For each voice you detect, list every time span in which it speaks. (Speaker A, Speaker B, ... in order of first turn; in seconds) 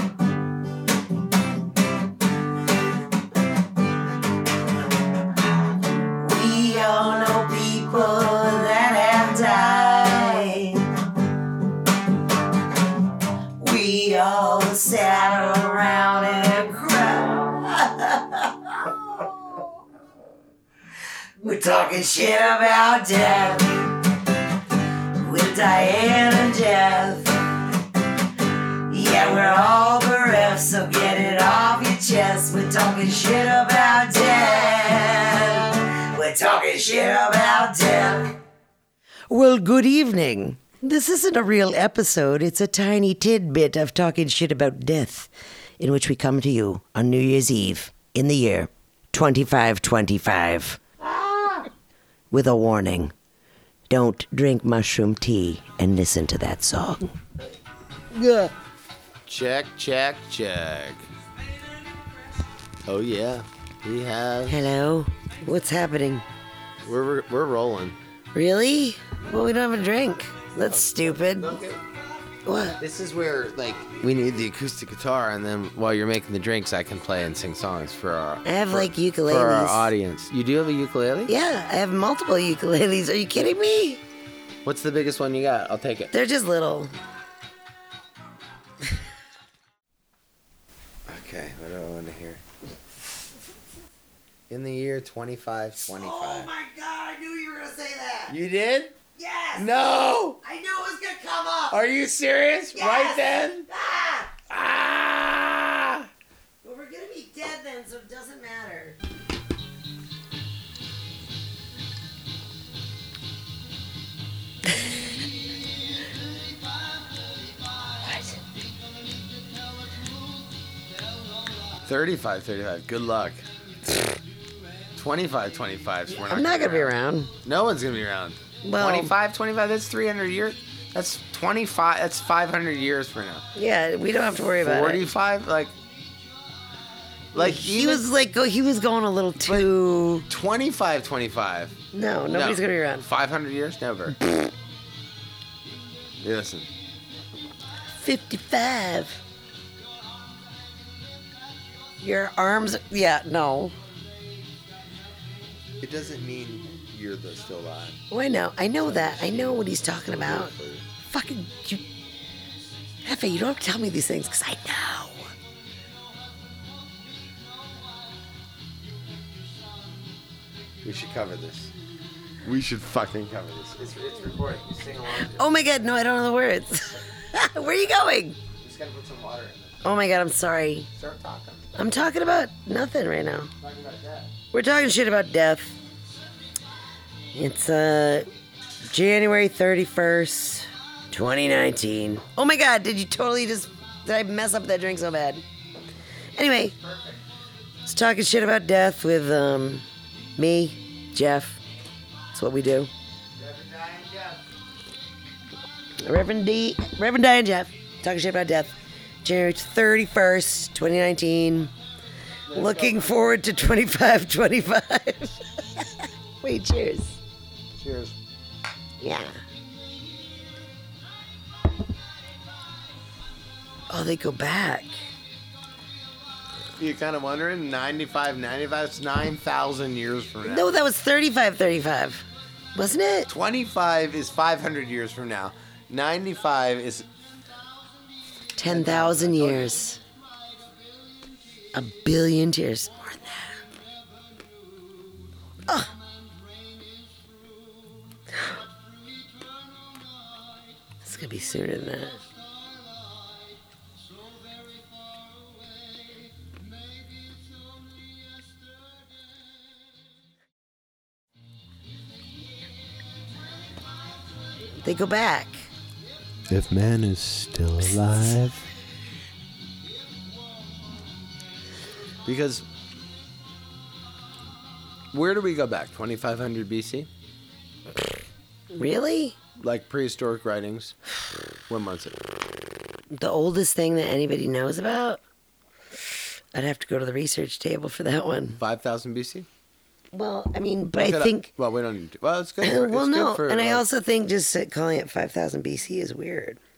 Speaker A: 6.1-10.9, 13.6-18.9, 21.4-24.0, 25.1-27.6, 28.9-38.4, 39.3-50.8, 52.3-53.1, 53.9-57.1, 58.1-58.5, 64.5-66.2, 68.3-71.5, 72.4-72.8, 78.4-79.9, 81.3-84.0, 86.1-86.9, 95.9-98.3, 99.2-99.7, 100.4-101.8, 102.7-104.3, 106.6-109.0, 118.0-118.3, 126.1-127.3, 128.6-129.1, 133.5-135.1, 137.4-140.3, 141.9-143.1, 148.0-149.2, 152.0-153.7, 158.1-160.5, 161.0-161.8, 163.0-165.3, 175.1-178.4, 179.8-180.9, 181.7-183.5, 184.5-185.8, 187.3-188.3, 188.8-195.4, 196.3-196.8, 197.8-201.6, 202.3-202.9, 206.0-211.7, 212.5-217.2, 219.0-219.4, 223.9-224.9, 230.4-233.3, 238.6-240.0, 241.7-243.6, 251.0-252.2, 264.8-265.7, 278.7-279.4, 283.1-285.2, 286.5-288.6, 290.1-291.5, 292.6-296.6
Speaker B: 59.3-61.1, 62.8-64.7, 66.8-68.0, 70.6-71.8, 72.8-81.3, 84.6-86.1, 91.1-92.4, 94.5-96.5, 98.3-98.9, 99.5-100.4, 101.7-103.7, 104.5-106.1, 121.8-123.4, 125.0-133.4, 134.6-135.7, 137.3-138.1, 140.3-141.8, 142.3-144.2, 146.2-146.7, 155.8-157.9, 158.8-160.8, 170.8-171.7, 172.4-175.5, 178.6-179.8, 180.9-181.7, 183.6-184.3, 196.8-197.2, 203.4-204.4, 212.5-213.3, 217.8-218.2, 226.8-230.7, 233.3-237.1, 238.6-239.8, 266.5-268.7, 272.2-272.6, 275.1-277.1, 279.6-280.9, 281.7-282.2, 288.6-289.5, 291.0-293.8